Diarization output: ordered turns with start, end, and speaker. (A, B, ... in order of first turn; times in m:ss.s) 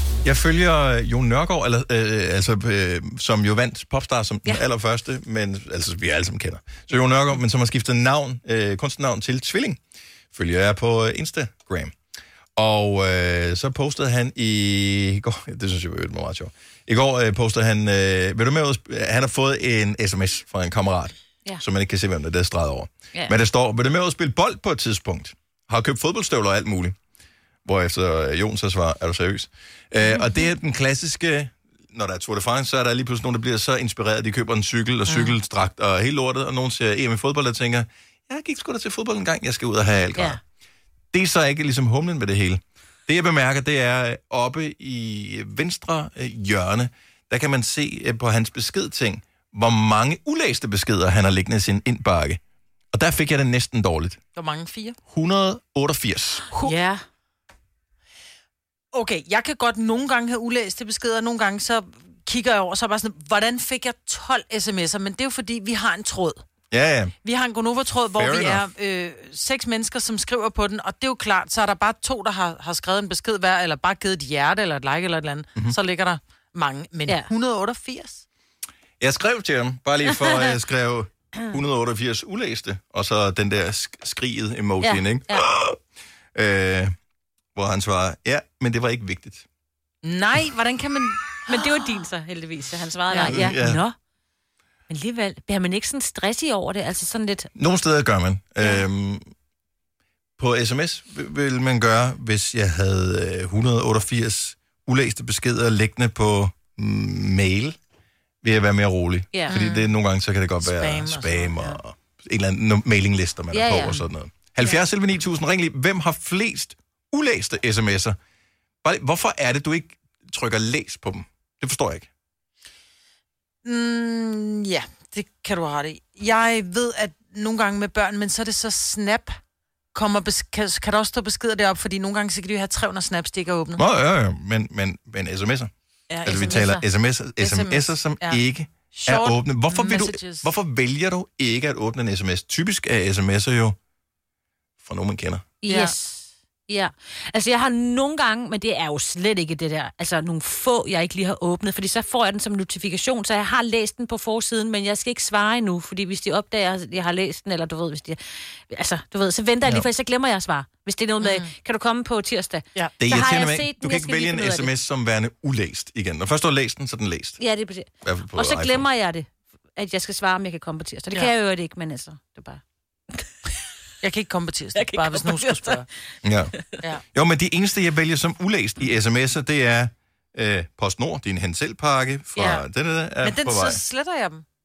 0:00.2-0:09.8 A
0:10.3-0:11.9 A
0:12.6-0:27.0 A
0:27.6-0:40.4 A
0:35.1-0:35.3 B
0:41.1-0:52.4 A
0:52.9-0:54.2 A
0:54.3-0:55.0 B
0:55.1-0:56.4 A
0:56.5-0:57.0 C
0:56.5-0:56.8 B
0:58.9-1:06.4 B
1:06.7-1:07.1 A
1:07.2-1:18.2 B
1:08.1-1:08.6 A
1:19.0-1:25.8 A
1:24.8-1:25.4 C
1:26.3-1:26.9 A
1:27.5-1:29.4 A
1:30.0-1:31.9 B
1:31.4-1:34.0 C
1:33.0-1:33.4 B
1:33.2-1:33.8 A
1:34.9-1:37.5 C
1:37.6-1:39.2 A
1:40.4-1:47.8 A
1:48.4-1:58.2 A
1:49.3-1:49.6 C
1:49.5-1:49.9 B
1:50.6-1:51.8 B
1:53.5-1:54.0 C
1:58.8-2:02.1 A
2:03.6-2:09.4 B
2:09.9-2:13.8 B
2:13.8-2:15.7 A
2:16.1-2:16.6 B
2:16.2-2:23.8 A
2:16.3-2:16.8 C
2:17.4-2:20.5 B
2:24.8-2:25.4 A
2:25.6-2:44.7 C
2:25.7-2:25.9 B
2:41.2-2:41.5 B
2:43.0-2:47.4 A
2:47.4-2:52.6 C
2:48.0-2:48.9 A
2:54.0-2:55.9 B
2:54.7-2:55.8 C
2:56.2-2:56.5 A
2:56.6-2:56.8 C
2:57.1-3:03.8 A
3:03.2-3:04.4 B